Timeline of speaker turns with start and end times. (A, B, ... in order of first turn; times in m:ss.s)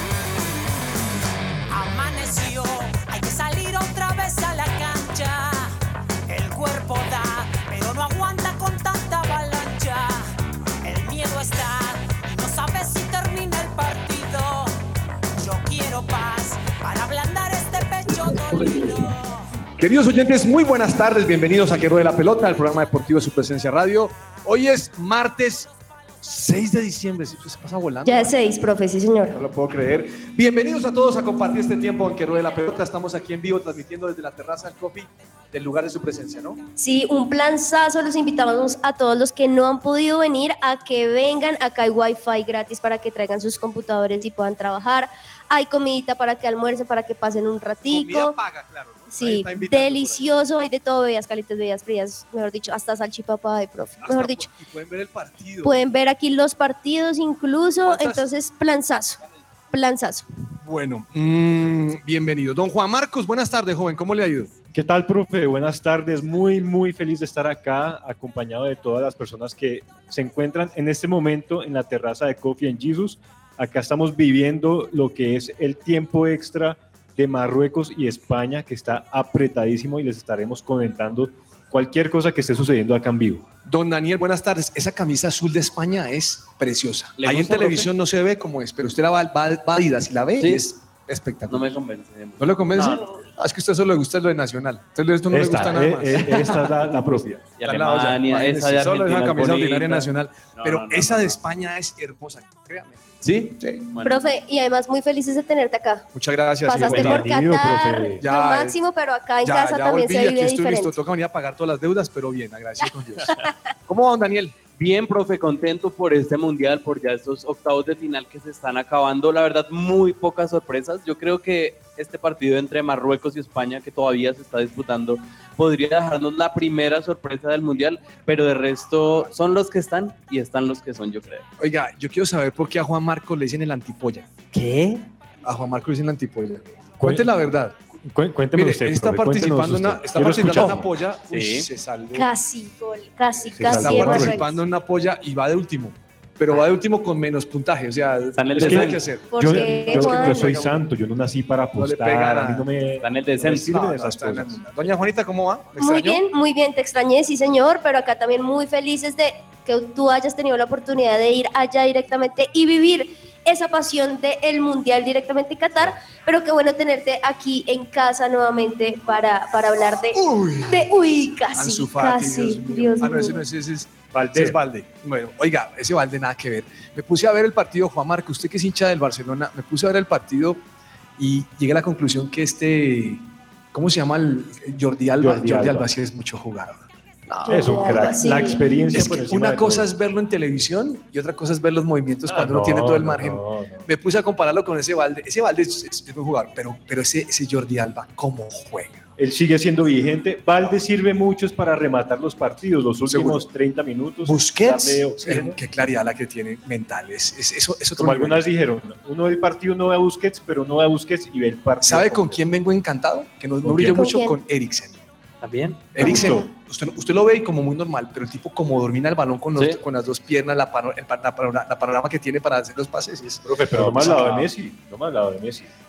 0:01.7-0:05.8 A
0:06.3-0:10.3 A
0:10.8-0:14.8 A
0:15.4-0:19.5 A
0:19.8-0:25.7 B
0:26.2-0:28.4 B
0:28.0-0:29.4 C
0:29.3-0:36.6 B
0:36.8-0:48.4 C
0:47.9-0:50.3 B
0:49.1-0:54.5 C
0:54.0-0:55.8 B
0:55.6-0:59.2 C
0:57.8-0:58.3 B
0:59.7-1:00.3 C
1:00.6-1:04.5 B
1:04.7-1:23.4 D
1:23.7-1:31.7 B
1:27.2-1:27.9 E
1:30.4-1:30.6 E
1:31.5-1:33.0 E
1:32.4-1:43.0 B
1:35.3-1:37.5 D
1:37.6-1:41.4 E
1:43.2-1:44.2 E
1:43.6-1:43.9 B
1:44.0-1:46.1 C
1:46.1-1:47.3 B
1:46.7-1:51.0 C
1:46.8-1:48.2 D
1:48.2-1:48.8 B
1:49.4-1:54.6 B
1:54.8-2:11.4 E
2:11.6-2:14.3 B
2:14.6-2:14.9 E
2:15.4-2:17.8 B
2:17.0-2:17.3 D
2:18.1-2:20.9 D
2:18.5-2:22.3 B
2:21.3-2:21.7 E
2:22.1-2:24.6 C
2:23.6-2:24.4 D
2:23.6-2:30.8 B
2:28.4-2:29.0 E
2:28.6-2:34.6 D
2:29.3-2:30.7 C
2:31.8-2:32.7 B
2:33.0-2:33.6 E
2:33.4-2:36.2 B
2:35.8-2:53.4 C
2:50.1-2:51.0 B
2:51.5-3:00.6 B
2:54.1-2:54.6 D
3:01.2-3:19.1 B
3:05.2-3:05.9 D
3:07.5-3:08.6 C
3:07.5-3:09.9 D
3:12.3-3:13.9 D
3:19.2-3:25.6 D
3:23.0-3:23.5 B
3:24.2-3:28.4 B
3:28.0-3:32.4 D
3:31.8-3:35.0 B
3:33.6-3:34.4 C
3:33.7-3:34.0 D
3:35.4-3:36.0 E
3:35.9-3:44.5 B
3:36.0-3:36.5 C
3:43.4-3:45.7 D
3:44.0-3:44.4 E